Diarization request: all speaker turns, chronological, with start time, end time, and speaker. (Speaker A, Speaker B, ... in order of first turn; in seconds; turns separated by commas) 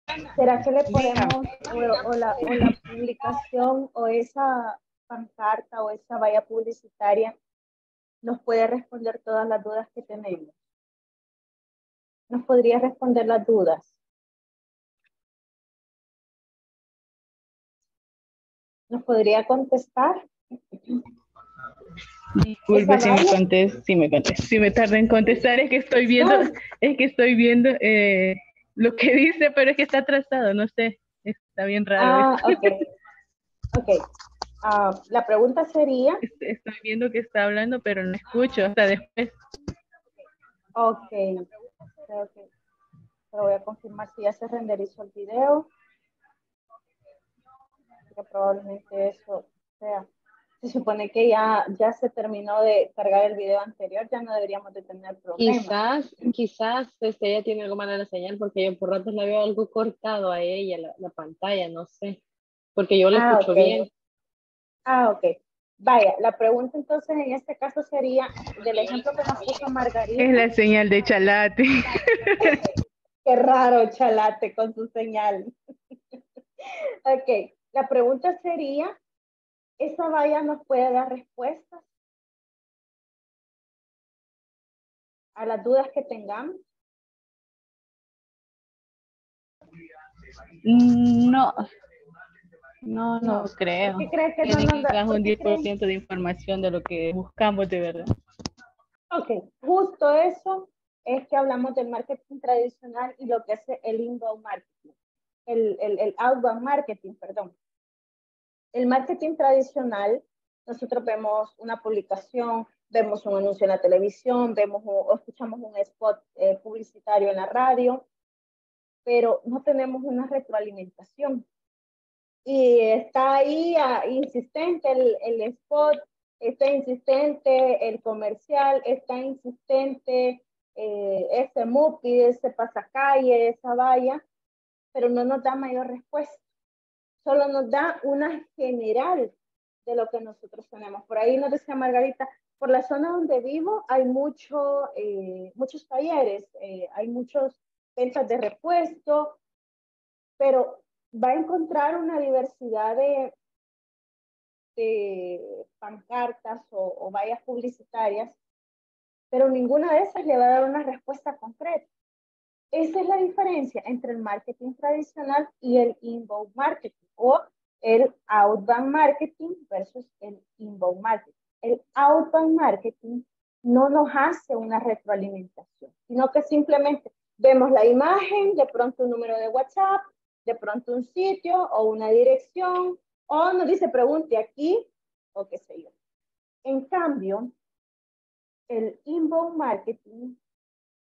Speaker A: 0.4-7.3, Speaker A: 8.2-10.5, Speaker A: 12.3-13.9, Speaker A: 18.9-20.2, Speaker B: 22.4-32.6, Speaker A: 22.7-23.4, Speaker A: 26.2-26.5, Speaker A: 32.0-32.9, Speaker A: 33.7-34.0, Speaker A: 34.6-36.2, Speaker B: 36.2-39.4, Speaker A: 40.8-41.4, Speaker A: 42.1-42.5, Speaker A: 43.3-45.7, Speaker A: 48.1-50.1, Speaker A: 50.6-55.8, Speaker C: 55.4-62.2, Speaker C: 62.8-63.9, Speaker A: 63.1-63.9, Speaker A: 64.9-70.5, Speaker B: 70.2-72.6, Speaker A: 73.3-75.5, Speaker A: 76.7-78.9, Speaker A: 79.8-81.8, Speaker A: 85.4-86.6, Speaker B: 90.7-91.6, Speaker B: 92.9-98.0, Speaker A: 93.2-95.7, Speaker A: 99.1-104.9, Speaker A: 105.5-107.5, Speaker A: 108.7-118.0, Speaker A: 119.1-121.5, Speaker A: 122.5-134.2, Speaker A: 134.9-136.4, Speaker A: 137.2-139.3, Speaker A: 139.9-149.4, Speaker A: 150.4-153.3, Speaker A: 154.8-158.4, Speaker A: 159.3-161.9, Speaker A: 162.7-185.9, Speaker A: 186.7-187.5, Speaker A: 188.7-190.4